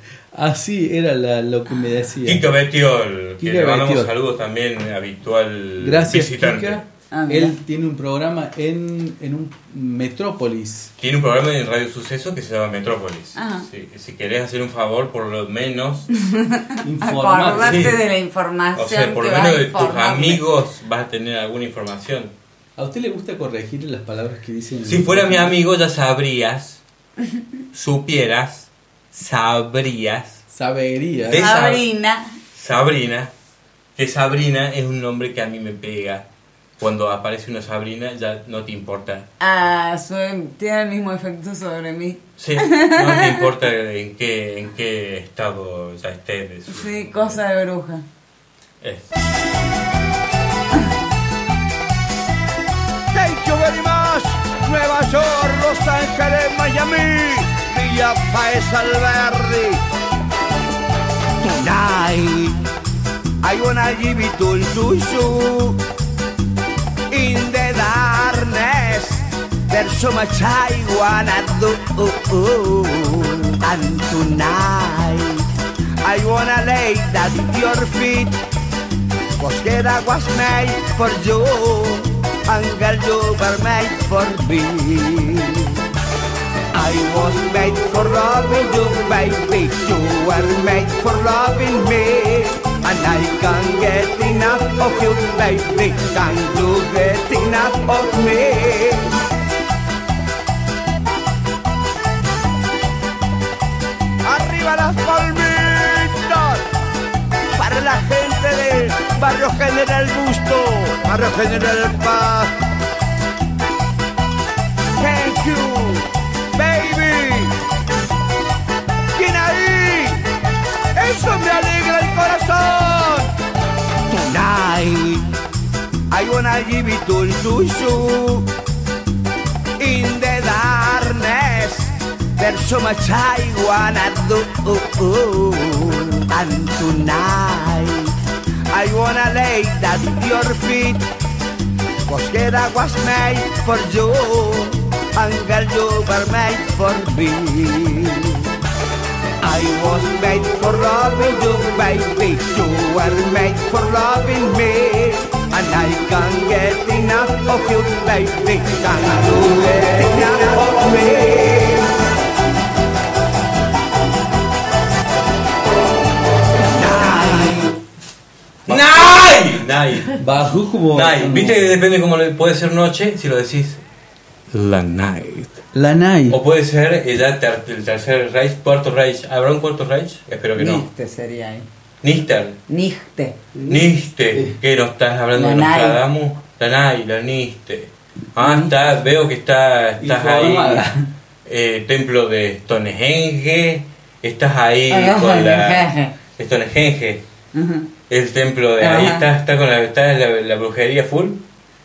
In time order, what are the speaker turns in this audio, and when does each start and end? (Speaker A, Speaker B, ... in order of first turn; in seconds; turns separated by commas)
Speaker A: 0.3-2.5, Speaker B: 2.3-6.8, Speaker A: 3.4-4.1, Speaker A: 5.8-10.9, Speaker C: 7.1-7.5, Speaker B: 11.0-16.1, Speaker C: 13.4-13.7, Speaker C: 16.4-20.4, Speaker A: 16.8-17.9, Speaker B: 17.5-18.0, Speaker B: 18.7-22.3, Speaker A: 22.8-25.5, Speaker B: 24.9-26.8, Speaker B: 27.7-30.4, Speaker A: 30.5-31.4, Speaker B: 31.3-31.9, Speaker C: 31.4-32.3, Speaker B: 32.5-33.3, Speaker B: 34.0-36.2, Speaker B: 36.8-39.3, Speaker C: 39.4-43.5, Speaker B: 42.4-47.4, Speaker C: 46.7-48.0, Speaker B: 48.8-49.1, Speaker D: 53.1-59.8, Speaker D: 61.4-62.6, Speaker D: 63.4-65.8, Speaker D: 67.1-75.5, Speaker D: 76.0-78.4, Speaker D: 79.4-85.7, Speaker D: 86.7-99.2, Speaker D: 104.2-106.6, Speaker D: 107.5-112.5, Speaker D: 115.0-117.5, Speaker D: 119.2-120.2, Speaker D: 121.0-123.3, Speaker D: 124.1-125.3, Speaker D: 126.1-128.5, Speaker D: 129.8-138.1, Speaker D: 138.7-141.1, Speaker D: 142.1-148.4, Speaker D: 149.4-161.9, Speaker D: 166.7-167.7, Speaker B: 168.7-170.2, Speaker A: 170.2-171.6, Speaker B: 170.9-173.8, Speaker B: 174.5-175.6, Speaker A: 175.7-176.4, Speaker B: 176.3-180.9, Speaker C: 180.6-181.7, Speaker B: 182.0-182.6, Speaker C: 182.7-183.4, Speaker A: 183.6-184.6, Speaker B: 183.7-190.9, Speaker C: 185.3-186.0, Speaker C: 188.4-188.7, Speaker A: 190.0-191.1, Speaker B: 191.5-197.2, Speaker C: 194.9-196.1, Speaker C: 197.5-197.9, Speaker B: 198.1-201.4, Speaker C: 198.8-199.3